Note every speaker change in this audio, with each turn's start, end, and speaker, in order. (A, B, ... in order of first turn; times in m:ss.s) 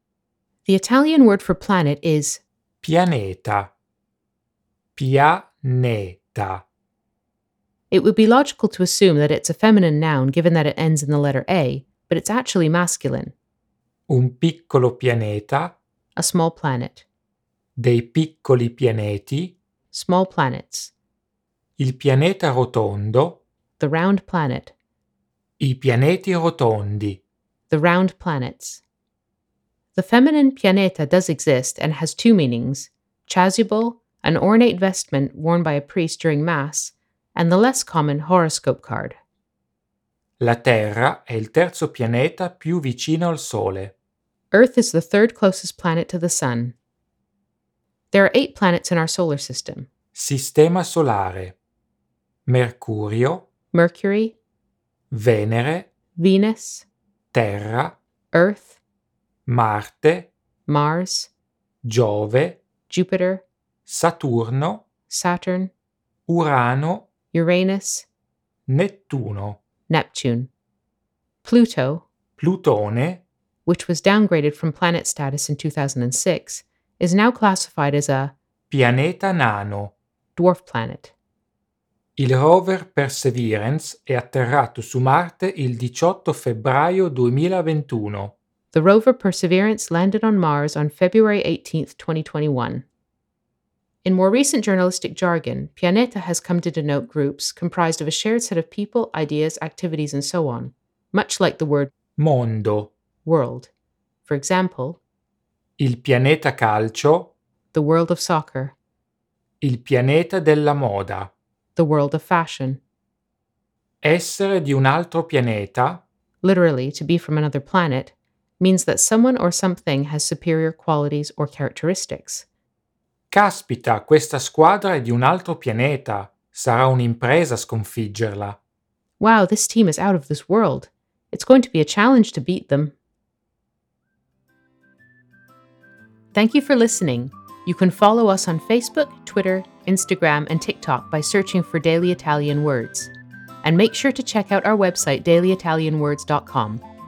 0:00.6-0:02.4 A
0:02.8-0:03.7 B
0:05.0-0:06.6 B
0:07.9-0:13.3 A
0:14.1-0:15.8 B
0:16.2-0:17.0 A
0:17.8-0:19.6 B
0:19.9-0:20.9 A
0:21.8-0:23.4 B
0:23.8-0:24.7 A
0:25.6-0:27.2 B
0:27.7-0:28.8 A
0:29.9-0:39.2 A
0:40.4-0:43.9 B
0:44.5-0:46.8 A
0:48.1-0:49.9 A
0:50.2-0:51.6 B
0:52.5-0:53.4 B
0:53.7-0:54.4 A
0:55.1-0:55.9 B
0:56.2-0:56.9 A
0:57.3-0:58.0 B
0:58.3-0:58.8 A
0:59.5-1:00.3 B
1:00.7-1:01.3 A
1:01.8-1:02.6 B
1:02.9-1:03.4 A
1:03.9-1:04.8 B
1:05.1-1:05.7 A
1:06.3-1:07.1 B
1:07.3-1:08.1 A
1:08.7-1:09.6 B
1:09.9-1:10.5 A
1:11.4-1:12.1 A
1:12.4-1:13.2 B
1:13.7-1:18.4 A
1:18.7-1:19.9 B
1:20.4-1:21.1 A
1:22.2-1:28.3 B
1:28.7-1:32.8 A
1:34.0-1:41.9 A
1:42.2-1:42.9 B
1:43.2-1:43.7 A
1:44.3-1:45.0 A
1:45.8-1:47.3 B
1:47.7-1:48.8 A
1:49.6-1:51.3 B
1:51.8-1:52.8 A
1:54.0-1:56.0 B
1:56.4-2:02.5 A
2:03.3-2:08.6 B
2:09.2-2:13.0 A
2:16.3-2:23.1 A
2:23.6-2:26.8 A